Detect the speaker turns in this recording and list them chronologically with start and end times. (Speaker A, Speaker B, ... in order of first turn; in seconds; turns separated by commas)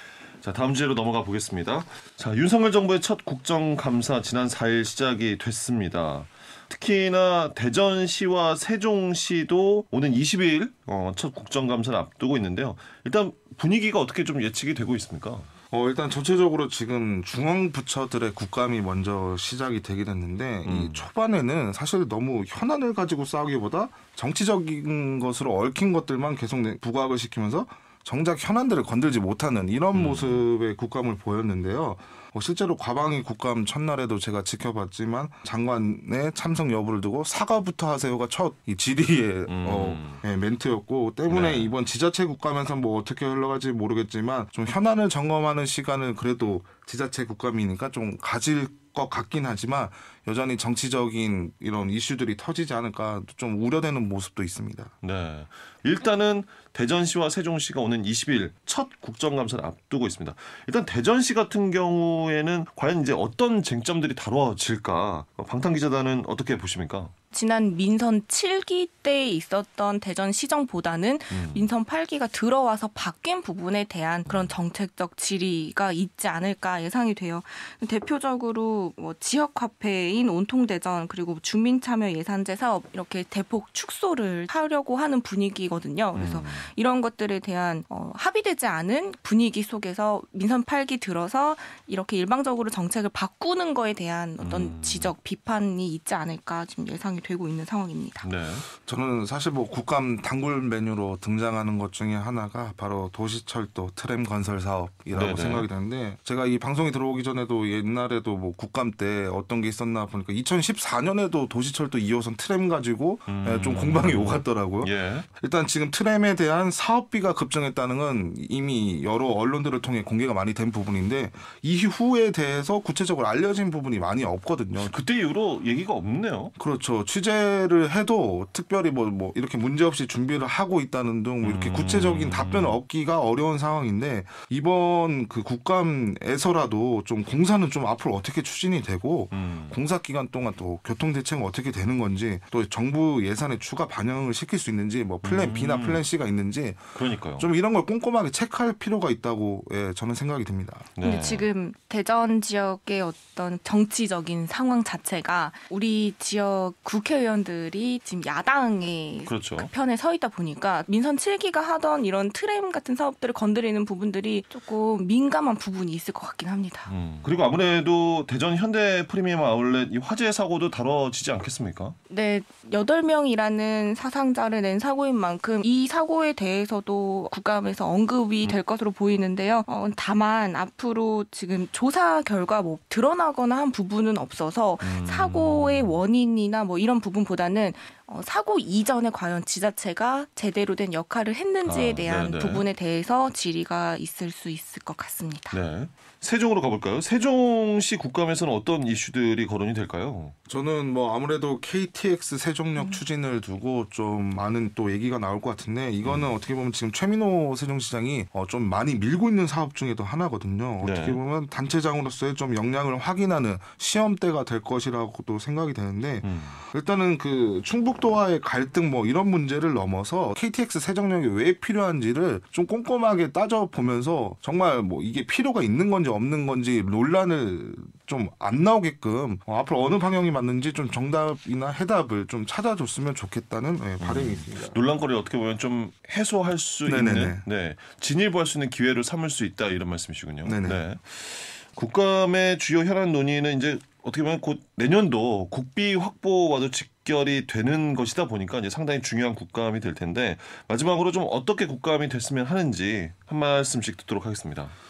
Speaker A: 0.4-15.5, Speaker B: 15.7-54.9, Speaker A: 20.6-21.1, Speaker A: 29.9-30.4, Speaker A: 39.5-40.2, Speaker A: 41.3-41.7, Speaker A: 55.0-67.1, Speaker C: 67.3-98.3, Speaker A: 71.3-71.7, Speaker A: 74.2-74.5, Speaker A: 86.1-86.7, Speaker A: 94.4-95.1, Speaker A: 98.2-98.7, Speaker B: 98.7-124.9, Speaker A: 105.1-105.7, Speaker A: 113.3-115.3, Speaker A: 124.8-126.5, Speaker B: 126.6-150.9, Speaker A: 131.4-132.8, Speaker A: 139.3-139.8, Speaker A: 145.2-146.0, Speaker A: 146.9-147.5, Speaker A: 151.0-151.4, Speaker C: 151.0-166.9, Speaker A: 159.2-159.7, Speaker A: 166.9-171.9, Speaker C: 172.1-195.6, Speaker A: 184.8-186.0, Speaker A: 191.6-192.6, Speaker A: 195.5-200.3, Speaker B: 200.5-234.8, Speaker A: 206.0-206.3, Speaker A: 210.8-211.2, Speaker A: 216.2-216.6, Speaker A: 234.0-254.7, Speaker B: 236.8-237.4, Speaker B: 240.4-240.8